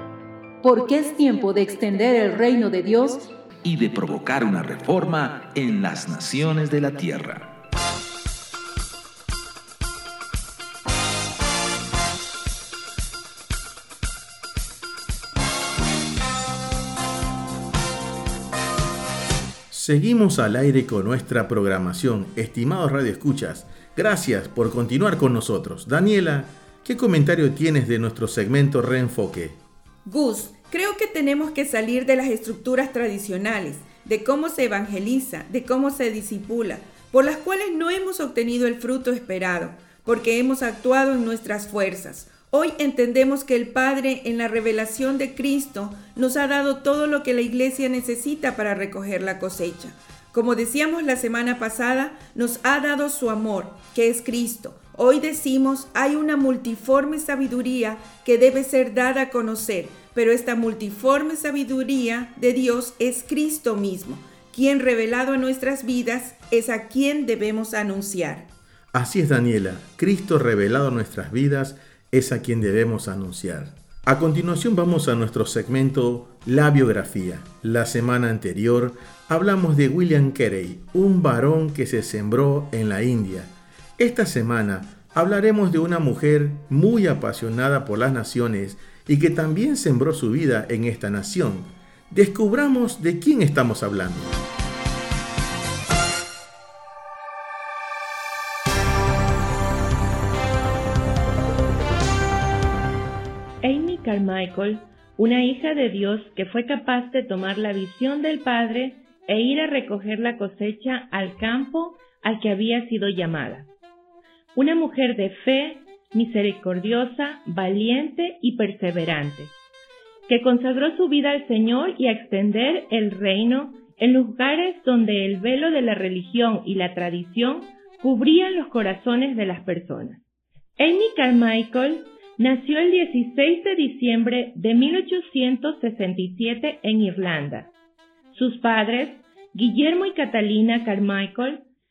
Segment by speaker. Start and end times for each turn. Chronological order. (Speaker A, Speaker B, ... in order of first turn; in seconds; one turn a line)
Speaker A: 0.6-3.3
Speaker B: 3.6-7.5
Speaker C: 19.7-29.6
Speaker D: 30.0-68.5
Speaker C: 68.9-94.4
Speaker E: 103.6-113.7
Speaker E: 114.5-119.5
Speaker E: 120.3-130.2
Speaker E: 130.8-137.7
Speaker E: 138.3-141.6